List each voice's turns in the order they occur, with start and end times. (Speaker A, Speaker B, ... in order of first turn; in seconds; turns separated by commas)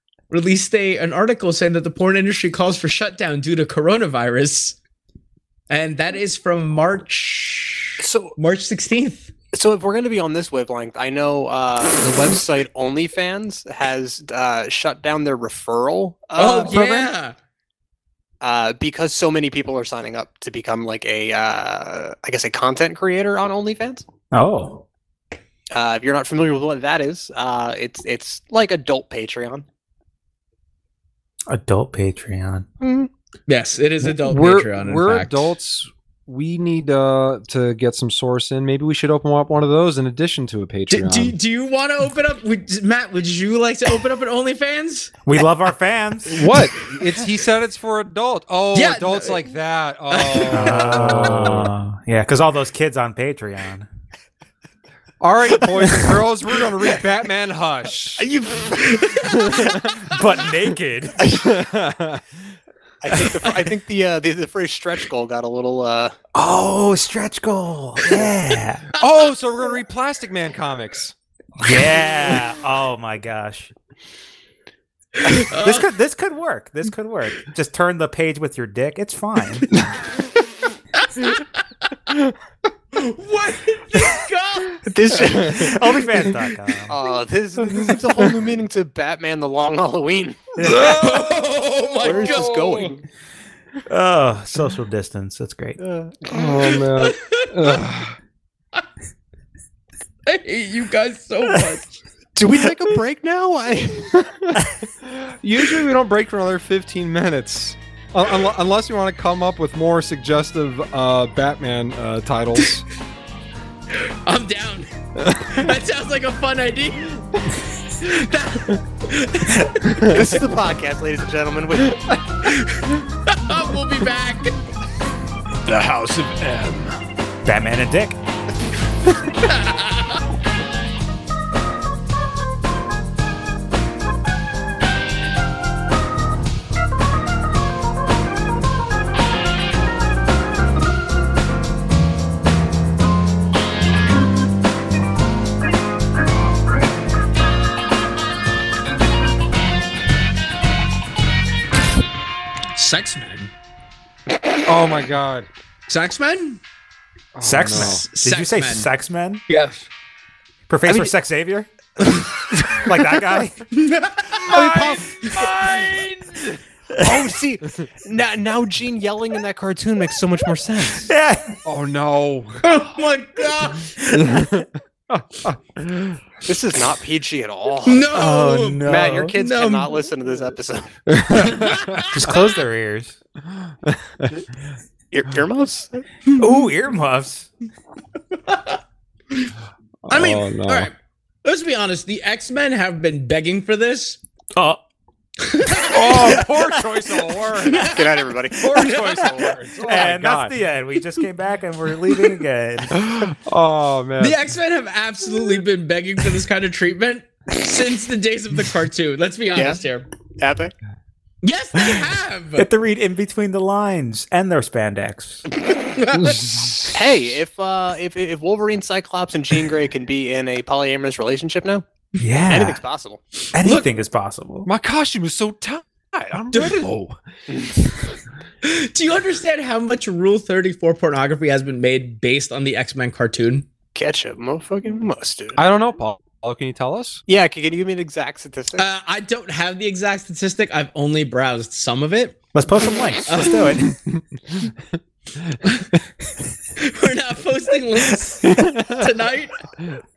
Speaker A: 0.3-4.8, Speaker A: 5.7-9.3, Speaker B: 8.0-8.3, Speaker B: 9.5-17.1, Speaker A: 16.4-17.4, Speaker B: 18.4-24.0, Speaker C: 24.3-24.8, Speaker B: 25.7-29.6, Speaker C: 31.5-32.7, Speaker B: 32.8-33.1, Speaker A: 33.5-35.5, Speaker D: 34.0-41.4, Speaker A: 40.9-45.1, Speaker C: 45.2-46.5, Speaker D: 46.3-51.7, Speaker A: 48.7-49.5, Speaker A: 50.1-51.5, Speaker C: 50.5-53.9, Speaker D: 55.2-58.3, Speaker B: 58.2-59.4, Speaker A: 58.8-60.2, Speaker D: 59.2-60.0, Speaker C: 60.0-61.2, Speaker B: 61.2-61.6, Speaker D: 61.4-62.4, Speaker B: 63.0-66.2, Speaker C: 66.3-68.9, Speaker D: 69.0-71.1, Speaker C: 71.6-73.7, Speaker A: 75.2-75.9, Speaker C: 75.2-79.8, Speaker A: 81.0-82.0, Speaker A: 82.9-84.8, Speaker B: 84.8-86.2, Speaker C: 85.4-87.0, Speaker B: 86.9-90.6, Speaker C: 90.6-91.2, Speaker D: 90.6-91.2, Speaker A: 90.7-93.0, Speaker B: 92.0-93.0, Speaker C: 93.9-95.8, Speaker B: 95.8-96.4, Speaker D: 96.3-98.2, Speaker A: 96.5-97.8, Speaker A: 100.3-102.0, Speaker B: 102.4-104.2, Speaker D: 104.2-112.8, Speaker A: 113.9-117.3, Speaker D: 115.2-115.7, Speaker A: 118.0-119.7, Speaker C: 119.6-119.8, Speaker B: 120.0-122.2, Speaker A: 122.4-124.6, Speaker D: 125.7-127.0, Speaker C: 127.5-128.2, Speaker A: 129.4-130.2, Speaker A: 152.7-153.5, Speaker D: 154.6-155.5, Speaker A: 155.9-156.6, Speaker D: 157.3-158.0, Speaker C: 157.4-159.4, Speaker A: 157.7-158.9, Speaker A: 159.5-159.8, Speaker C: 160.7-161.7, Speaker C: 162.7-163.7, Speaker A: 163.7-166.1, Speaker B: 164.4-165.5, Speaker D: 164.5-166.6, Speaker C: 166.9-167.2, Speaker B: 167.0-171.1, Speaker C: 171.1-171.6, Speaker D: 171.7-172.7, Speaker A: 172.6-173.9, Speaker C: 174.0-174.5, Speaker D: 174.1-176.2, Speaker B: 176.4-178.1, Speaker A: 177.9-180.0, Speaker C: 178.1-179.3, Speaker B: 178.8-181.0, Speaker D: 181.1-182.1, Speaker A: 181.3-182.3, Speaker C: 182.1-183.2, Speaker D: 183.5-184.4, Speaker B: 185.1-186.1, Speaker C: 186.3-187.5, Speaker A: 188.5-188.8, Speaker D: 190.1-190.9, Speaker A: 190.1-194.2, Speaker C: 194.6-194.8, Speaker A: 195.4-196.5, Speaker D: 195.9-198.0, Speaker C: 196.1-196.8, Speaker A: 197.7-199.3, Speaker B: 197.8-199.6, Speaker D: 198.6-200.6, Speaker C: 199.8-203.2, Speaker D: 203.0-204.4, Speaker A: 204.2-210.1, Speaker B: 209.6-209.8, Speaker B: 210.4-210.7, Speaker A: 211.4-212.7, Speaker C: 212.6-215.5, Speaker A: 215.8-216.9, Speaker D: 216.1-216.8, Speaker B: 216.9-221.8, Speaker C: 222.2-222.8, Speaker B: 222.5-223.2, Speaker C: 223.5-224.7, Speaker A: 223.6-223.9, Speaker D: 224.7-227.2, Speaker A: 228.6-233.7, Speaker B: 233.9-235.6, Speaker D: 235.6-237.2, Speaker B: 237.3-238.8, Speaker A: 238.8-242.4, Speaker C: 242.5-243.9, Speaker A: 243.3-243.7, Speaker D: 244.1-244.7, Speaker A: 246.8-249.7, Speaker D: 248.5-248.9